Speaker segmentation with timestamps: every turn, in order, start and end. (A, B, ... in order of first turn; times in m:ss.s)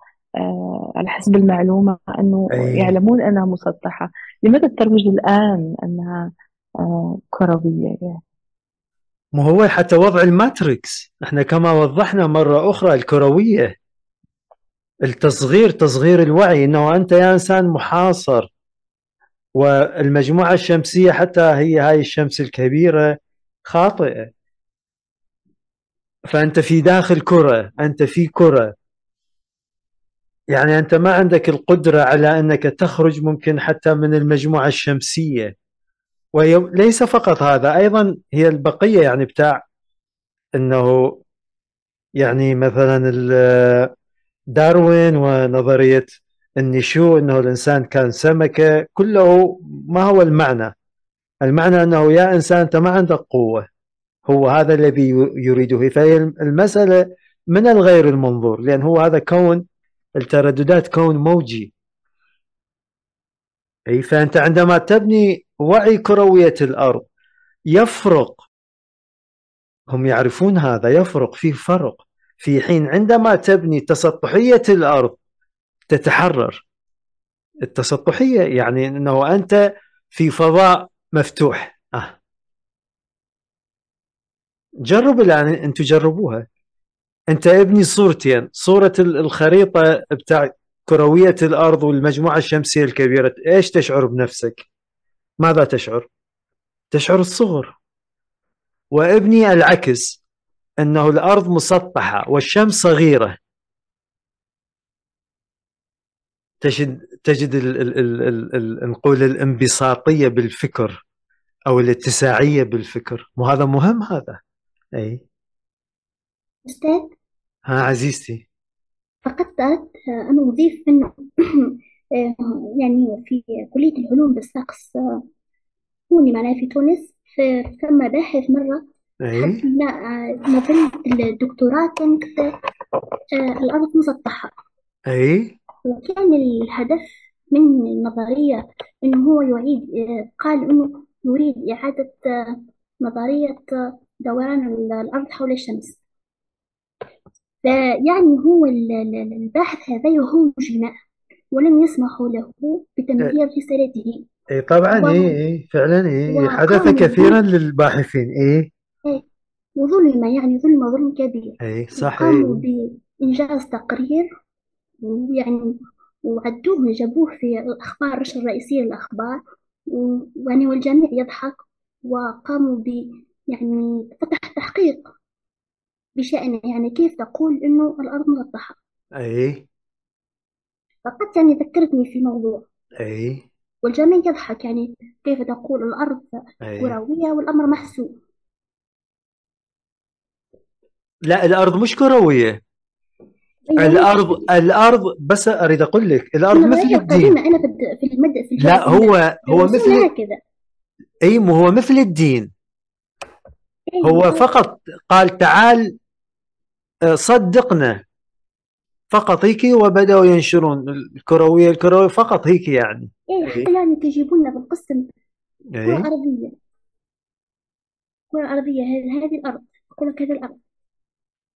0:00.4-0:06.3 A
0:02.5-0:03.0 B
0:06.8-0:08.2 A
0:09.4-0:13.7 B
0:15.0-0:18.5 B
0:19.6-0:23.1 B
0:23.7-0:24.3 B
0:26.3-0:28.7 B
0:30.5-0:35.5 B
0:36.4-0:39.6 B
0:40.6-0:41.2 B
0:42.2-0:43.9 B
0:44.6-0:50.7 B
0:51.4-0:53.6 B
0:54.3-0:59.6 B
1:00.2-1:01.7 B
1:03.9-1:07.1 B
1:07.7-1:08.4 B
1:09.9-1:15.2 B
1:15.9-1:16.6 B
1:17.6-1:19.6 B
1:20.1-1:22.2 B
1:24.9-1:26.5 B
1:27.3-1:34.6 B
1:35.4-1:36.1 B
1:36.9-1:37.8 B
1:38.9-1:40.2 B
1:40.8-1:43.4 B
1:46.6-1:51.0 B
1:51.7-1:54.4 B
1:55.0-1:55.2 B
1:56.6-1:57.1 C
1:57.7-1:58.4 B
1:59.3-2:05.0 C
2:06.1-2:08.8 C
2:09.2-2:09.6 B
2:09.4-2:12.5 C
2:13.3-2:14.5 C
2:15.1-2:15.6 B
2:15.8-2:23.6 C
2:24.2-2:26.0 C
2:27.6-2:31.0 C
2:31.5-2:34.3 C
2:34.5-2:38.7 B
2:34.9-2:35.3 C
2:36.3-2:37.4 C
2:39.8-2:44.3 C
2:41.6-2:42.6 B
2:45.0-2:45.7 C
2:46.2-2:49.4 C
2:49.9-2:55.0 C
2:56.2-2:58.8 C
2:59.2-2:59.6 B
3:01.0-3:02.7 C
3:03.0-3:03.4 B
3:03.8-3:08.1 C
3:06.6-3:07.0 B
3:11.3-3:12.6 B
3:13.7-3:14.4 C
3:13.8-3:17.3 B
3:16.5-3:20.4 C
3:18.6-3:20.1 B
3:21.2-3:22.5 B
3:23.9-3:24.5 C
3:24.0-3:25.9 B
3:27.1-3:28.0 B
3:29.1-3:33.7 B
3:33.3-3:35.0 C
3:35.7-3:36.1 B
3:35.8-3:36.6 C
3:38.3-3:40.6 C